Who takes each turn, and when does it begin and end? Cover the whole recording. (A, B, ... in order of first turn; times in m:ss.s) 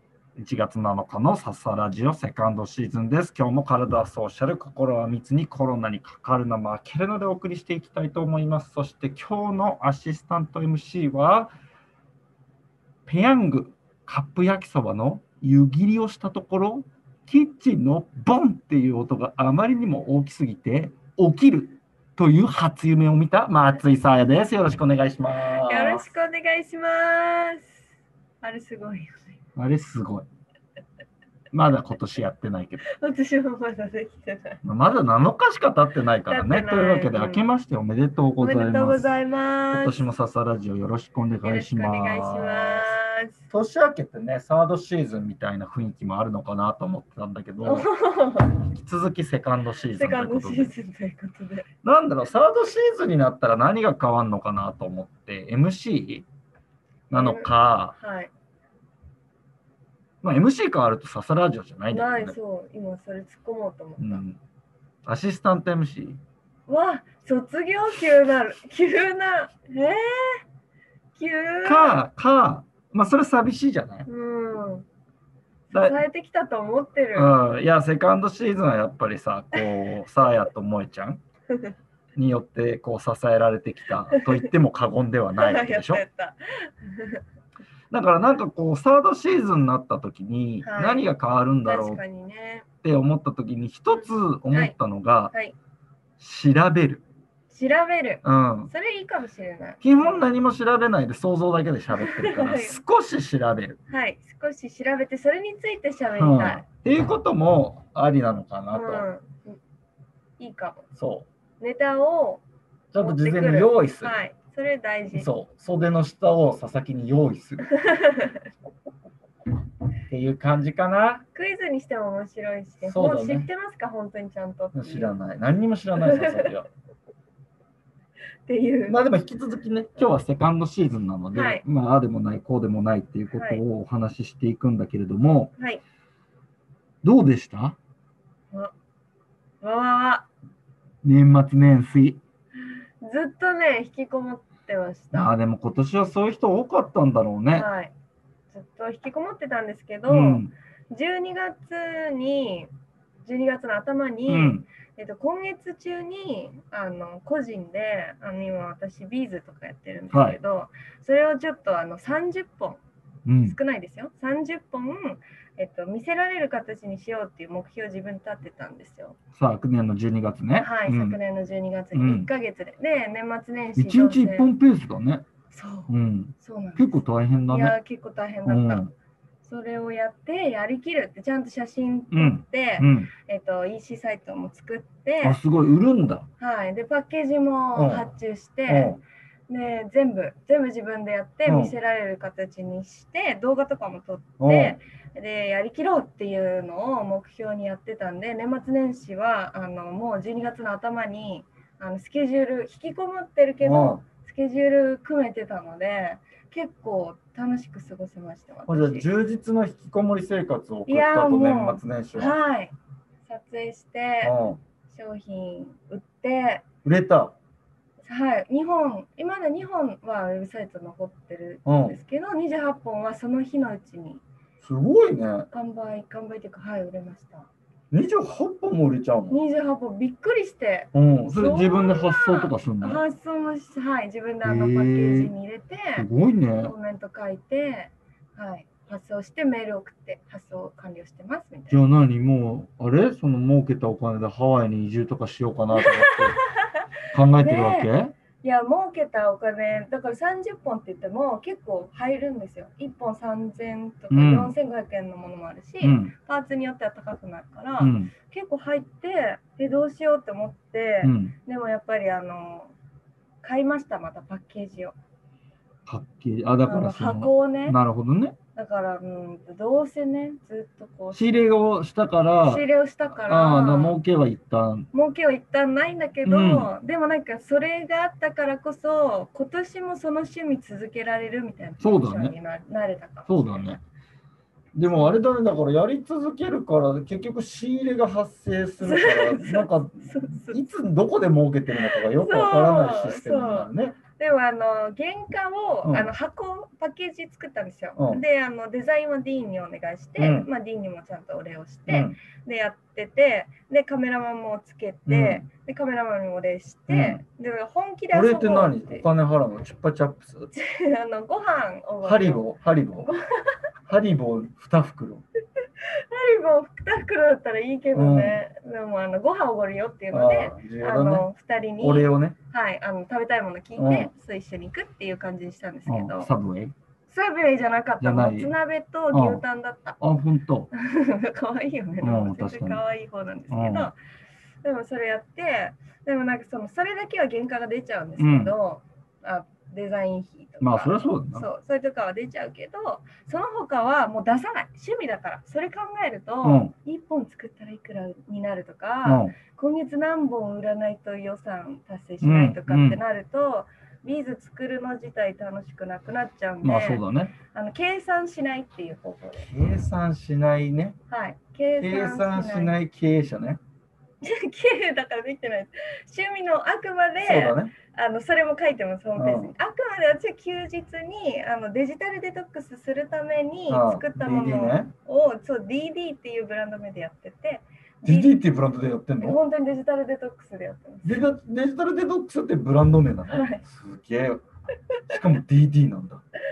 0:00.4-0:11.5 A
0:13.1-0:26.0 A
0:25.5-0:27.8 B
0:28.4-0:29.4 B
0:29.6-0:30.3 A
0:31.5-0:32.9 A
0:32.8-0:34.6 B
0:34.6-0:39.2 A
0:36.3-0:37.5 B
0:38.4-0:40.0 B
0:39.7-0:47.9 A
0:41.4-0:43.5 B
0:47.6-0:48.6 B
0:48.6-0:50.8 A
0:49.9-0:51.7 B
0:51.8-0:56.3 A
0:57.1-0:58.0 A
0:57.1-0:58.3 B
1:00.2-1:02.4 A
1:01.9-1:04.2 B
1:04.0-1:04.4 A
1:05.0-1:06.2 A
1:06.7-1:10.4 B
1:11.2-1:12.0 B
1:11.6-1:14.1 A
1:14.1-1:14.9 B
1:15.7-1:17.4 B
1:15.7-1:16.0 A
1:17.1-1:21.2 A
1:22.2-1:26.0 A
1:24.1-1:24.5 B
1:25.4-1:27.2 B
1:27.9-1:32.0 A
1:30.6-1:31.1 B
1:31.6-1:32.7 B
1:32.8-1:35.3 A
1:33.9-1:34.8 B
1:36.2-1:37.0 A
1:37.5-1:40.2 B
1:38.2-1:38.7 A
1:39.8-1:43.8 A
1:42.0-1:42.8 B
1:43.9-1:46.6 B
1:46.2-1:49.1 A
1:48.7-1:49.6 B
1:50.4-1:50.8 B
1:51.0-1:51.3 A
1:51.6-1:52.4 B
1:52.9-1:54.2 A
1:53.0-1:55.3 B
1:55.1-1:57.8 A
1:57.7-1:58.4 B
2:00.1-2:01.2 A
2:01.4-2:05.1 B
2:02.9-2:03.5 A
2:04.8-2:06.7 A
2:06.0-2:06.5 B
2:08.5-2:09.0 B
2:08.9-2:15.5 A
2:11.3-2:11.6 B
2:13.3-2:13.6 B
2:17.0-2:17.8 A
2:19.6-2:20.3 B
2:21.0-2:22.2 A
2:23.0-2:25.3 B
2:25.1-2:27.7 A
2:27.5-2:27.9 B
2:28.5-2:32.7 B
2:30.1-2:30.5 A
2:33.2-2:42.8 B
2:34.3-2:34.6 A
2:40.1-2:40.4 A
2:43.2-2:43.6 A
2:43.4-2:49.2 B
2:49.4-2:51.2 A
2:50.6-2:54.5 B
2:51.9-2:52.3 A
2:53.8-2:55.2 A
2:55.5-2:58.9 B
2:55.9-2:57.8 A
2:58.4-2:58.9 A
2:59.4-3:05.4 B
3:02.1-3:03.1 A
3:05.2-3:06.3 A
3:06.4-3:09.0 B
3:07.8-3:08.1 A
3:08.7-3:09.0 A
3:09.5-3:29.1 B
3:11.5-3:11.8 A
3:14.4-3:14.8 A
3:23.6-3:24.0 A
3:28.7-3:32.4 A
3:30.9-3:32.7 B
3:33.3-3:34.3 B
3:34.2-3:34.6 A
3:34.9-3:36.6 B
3:36.8-3:37.4 A
3:38.0-3:44.2 B
3:41.6-3:42.0 A
3:44.6-3:45.5 A
3:45.5-3:47.5 B
3:47.9-3:49.4 A
3:49.3-3:56.1 B
3:50.9-3:53.0 A
3:54.4-3:55.3 A
3:56.0-3:56.7 A
3:56.6-4:01.8 B
4:01.7-4:06.4 A
4:05.8-4:06.8 B
4:07.1-4:08.2 A
4:07.4-4:07.9 B
4:08.4-4:22.7 B
4:14.1-4:14.5 A
4:15.8-4:16.2 A
4:17.8-4:18.1 A
4:21.0-4:21.4 A
4:23.4-4:25.0 B
4:25.9-4:28.4 A
4:26.7-4:27.8 B
4:28.6-4:31.4 B
4:31.1-4:32.7 A
4:32.4-4:34.0 B
4:33.2-4:34.9 A
4:34.9-4:43.6 B
4:36.2-4:36.7 A
4:41.8-4:42.4 A
4:43.3-4:43.8 A
4:44.8-4:54.0 A
4:48.8-4:50.6 B
4:51.8-5:09.1 B
4:55.8-4:56.1 A
4:58.0-4:58.2 A
5:00.2-5:00.5 A
5:01.9-5:02.2 A
5:05.1-5:05.5 A
5:06.9-5:07.2 A
5:08.1-5:10.5 A
5:10.5-5:13.6 B
5:12.0-5:13.1 A
5:13.9-5:15.2 A
5:16.1-5:26.3 B
5:17.9-5:18.4 A
5:20.1-5:21.3 A
5:21.8-5:22.4 A
5:23.8-5:24.1 A
5:25.9-5:26.7 A
5:27.1-5:30.0 B
5:28.0-5:28.6 A
5:29.1-5:29.4 A
5:30.0-5:30.7 A
5:30.7-5:34.0 B
5:32.0-5:32.8 A
5:33.5-5:33.9 A
5:34.6-5:59.0 B
5:38.2-5:38.6 A
5:40.6-5:41.5 A
5:46.4-5:46.7 A
5:49.0-5:49.4 A
5:52.2-5:53.0 A
5:56.6-5:57.4 A
5:59.0-6:01.0 A
6:01.1-6:02.8 B
6:01.8-6:03.6 A
6:04.2-6:18.3 B
6:07.2-6:07.7 A
6:09.2-6:09.5 A
6:13.7-6:14.9 A
6:18.0-6:19.4 A
6:19.2-6:21.2 B
6:21.0-6:24.4 A
6:23.3-6:23.6 B
6:25.1-6:26.2 A